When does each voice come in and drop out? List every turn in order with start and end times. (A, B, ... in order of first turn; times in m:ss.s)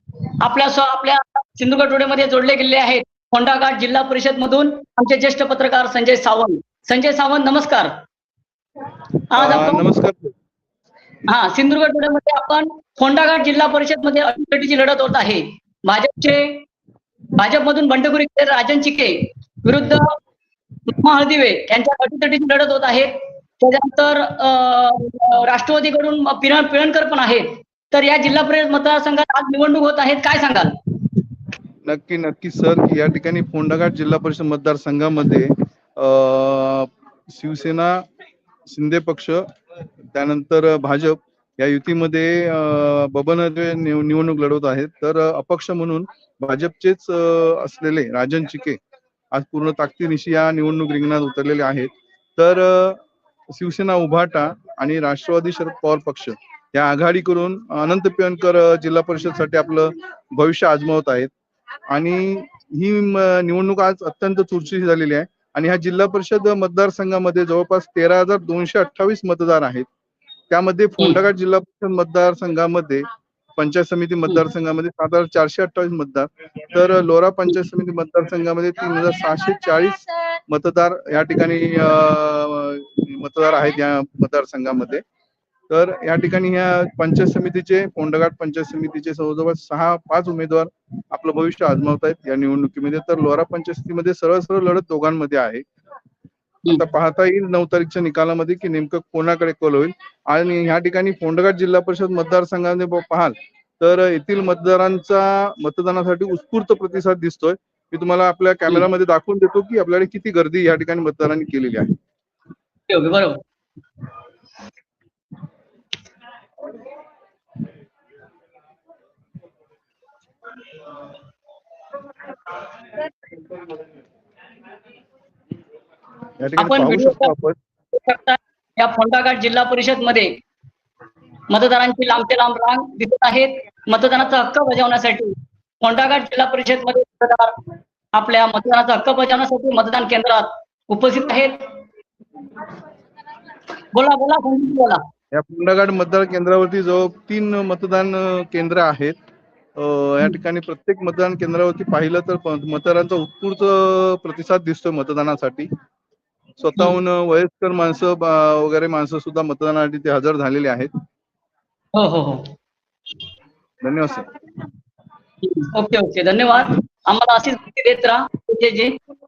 0:00.4-0:08.0 A
0:09.3-0:09.8 A
0:09.4-0:10.3 B
0:11.3-0:16.7 A
0:17.4-0:20.2 A
0:20.9-0:30.8 A
0:31.8-0:38.0 B
0:38.7-0:39.4 B
0:40.1-0:48.8 B
0:49.3-1:01.3 B
1:01.9-1:09.9 B
1:10.5-1:25.0 B
1:25.7-1:35.6 B
1:36.8-1:51.9 B
1:52.9-1:53.4 A
2:06.4-2:07.6 B
2:06.6-2:07.4 A
2:07.9-2:10.4 A
2:11.5-2:17.6 A
2:18.1-2:21.6 A
2:23.9-2:25.0 A
2:25.3-2:29.2 B
2:29.8-2:35.7 B
2:36.6-2:40.9 B
2:41.9-2:42.5 A
2:43.8-2:44.3 B
2:45.4-2:49.0 A